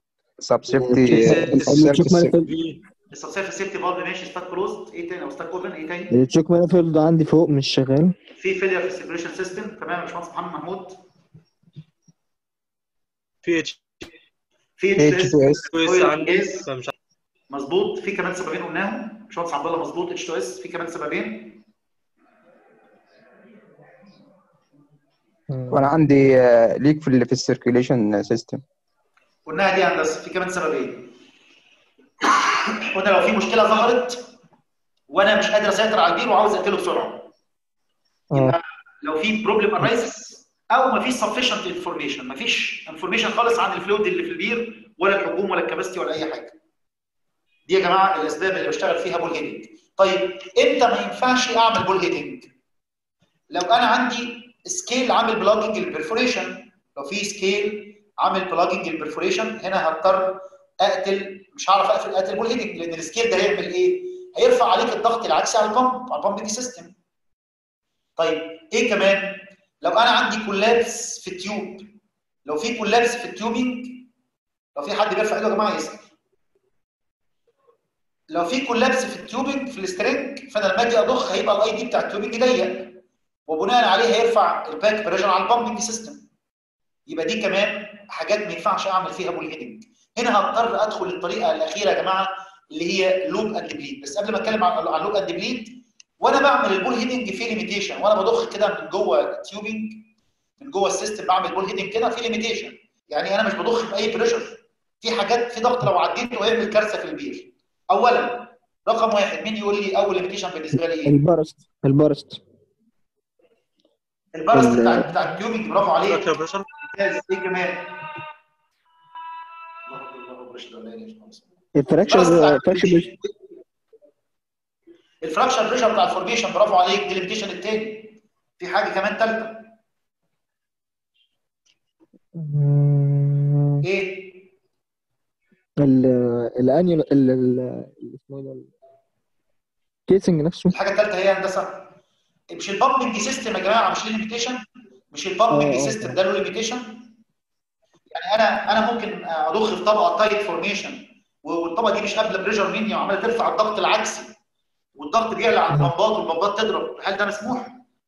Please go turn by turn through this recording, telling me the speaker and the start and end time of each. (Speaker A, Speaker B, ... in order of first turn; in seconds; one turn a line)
Speaker A: 0.4-2.5
Speaker B: 0.7-2.5
Speaker C: 1.0-1.9
Speaker D: 2.4-2.8
Speaker C: 3.1-6.1
Speaker B: 6.1-8.2
Speaker C: 8.4-11.0
Speaker D: 13.4-13.8
Speaker C: 14.8-16.7
Speaker A: 15.0-15.7
Speaker D: 15.7-16.9
Speaker C: 17.5-21.6
Speaker B: 25.5-25.8
Speaker A: 25.7-28.6
Speaker C: 29.5-31.1
Speaker C: 32.2-34.2
Speaker C: 35.1-37.3
Speaker B: 38.3-38.6
Speaker C: 38.3-46.6
Speaker C: 47.7-52.5
Speaker C: 53.5-66.9
Speaker C: 68.2-71.9
Speaker C: 72.5-74.1
Speaker C: 74.8-76.1
Speaker C: 78.3-86.2
Speaker C: 87.1-100.1
Speaker C: 100.6-111.2
Speaker B: 111.0-112.4
Speaker C: 114.3-118.0
Speaker B: 114.5-115.2
Speaker D: 116.0-116.7
Speaker C: 119.9-121.5
Speaker B: 121.8-123.1
Speaker C: 122.0-123.3
Speaker C: 125.2-129.7
Speaker B: 132.3-133.8
Speaker C: 133.8-134.5
Speaker B: 135.8-138.7
Speaker B: 140.1-140.8
Speaker C: 140.7-141.9
Speaker C: 142.5-147.1
Speaker B: 145.5-146.2
Speaker C: 148.1-154.3
Speaker C: 155.0-157.8